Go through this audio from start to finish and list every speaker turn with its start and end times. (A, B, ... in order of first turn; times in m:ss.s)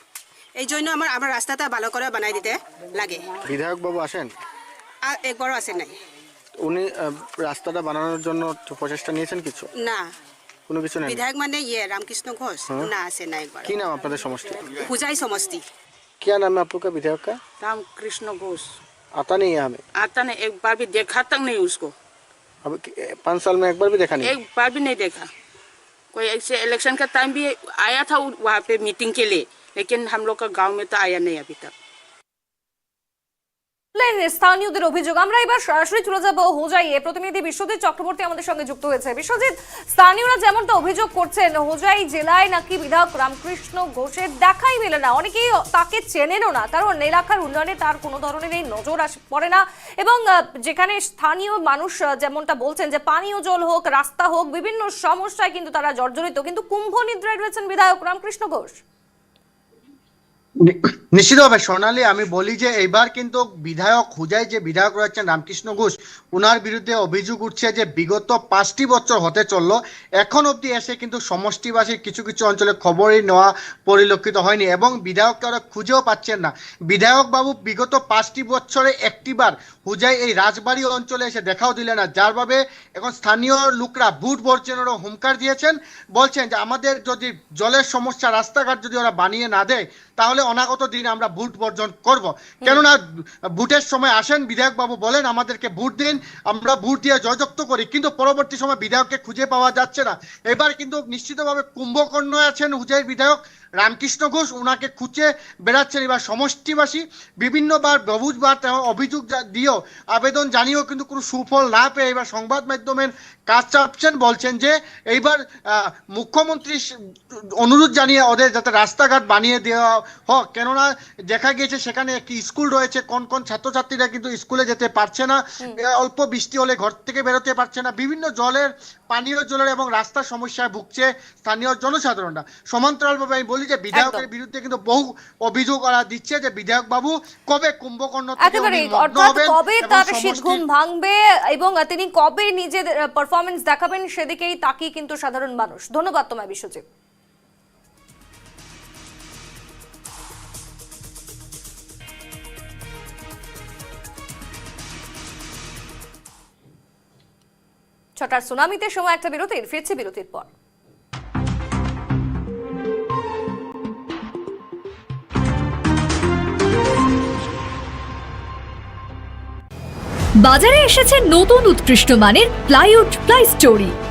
0:00.6-0:03.4 A
0:03.5-0:04.3 B
0:05.0-0:05.9 A
0:06.6-0:09.7 B
0:09.8-0:10.1 A
0:10.7-0:11.2 B
0:11.0-0:13.7 A
0:13.6-0:14.7 B
0:14.8-0:15.6 A
0:16.2-0:17.4 B
0:17.6-0:18.7 C
0:19.1-0:19.8 B
0:20.0-0:21.9 C
0:22.6-0:24.3 B
0:24.2-0:25.3 C
0:26.1-0:31.7 C
0:33.9-0:58.8 D
1:00.6-1:33.0 E
1:33.6-1:56.8 E
1:57.6-2:20.6 E
2:13.9-2:14.2 D
2:18.4-2:26.8 D
2:38.2-2:40.5 D
2:50.4-2:53.9 F